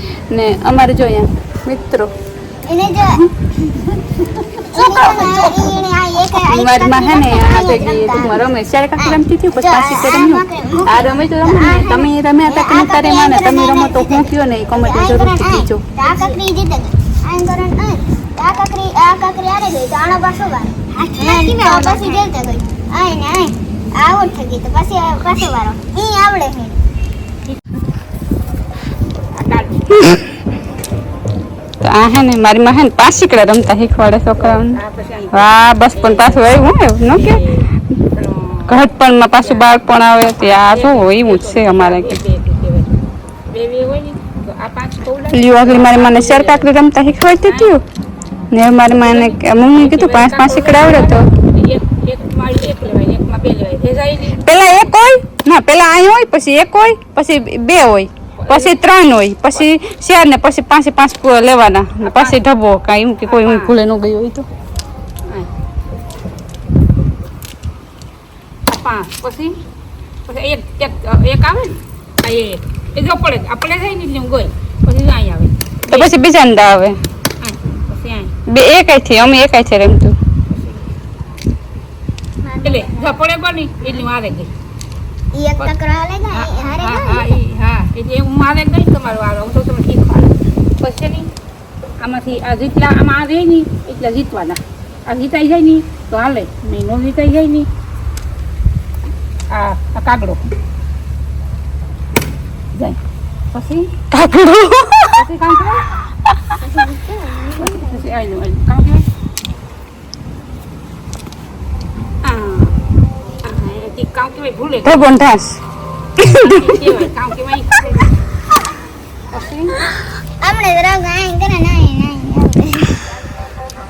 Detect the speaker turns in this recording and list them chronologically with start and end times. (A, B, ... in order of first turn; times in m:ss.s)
0:00.3-0:02.1 A
0:02.7-0:03.9 B
0:04.6-0:08.4 B
0:04.8-0:05.8 A
0:06.4-0:16.4 A
0:09.0-0:26.8 B
0:29.3-0:29.9 C
0:29.9-0:30.3 A
0:31.8-0:34.8 A
0:34.4-0:38.9 C
0:35.3-0:37.4 A
0:38.7-0:42.2 A
0:39.4-0:39.7 C
0:40.4-0:43.0 C
0:43.5-0:46.7 C
0:45.3-0:47.8 A
0:47.4-0:47.8 C
0:48.5-0:51.3 A
0:48.9-0:54.9 C
0:54.3-1:04.4 A
0:58.4-0:58.8 C
1:02.0-1:02.4 C
1:03.2-1:03.8 C
1:08.7-1:09.6 C
1:10.3-1:16.1 C
1:15.9-1:17.0 A
1:17.4-1:18.3 C
1:18.5-1:20.1 A
1:20.5-1:20.9 C
1:22.4-1:23.1 B
1:22.6-1:24.5 C
1:25.3-1:27.4 B
1:26.3-1:31.3 C
1:32.0-1:37.7 C
1:39.5-1:40.4 C
1:43.5-1:44.0 C
1:44.1-1:45.2 A
1:45.2-1:45.9 C
1:46.6-1:48.0 B
1:47.6-1:49.0 C
1:52.2-1:52.8 C
1:53.4-1:55.1 C
1:54.8-1:55.6 A
1:56.2-1:56.8 A
1:56.3-1:58.1 C
1:59.3-1:59.8 C
2:00.4-2:03.2 B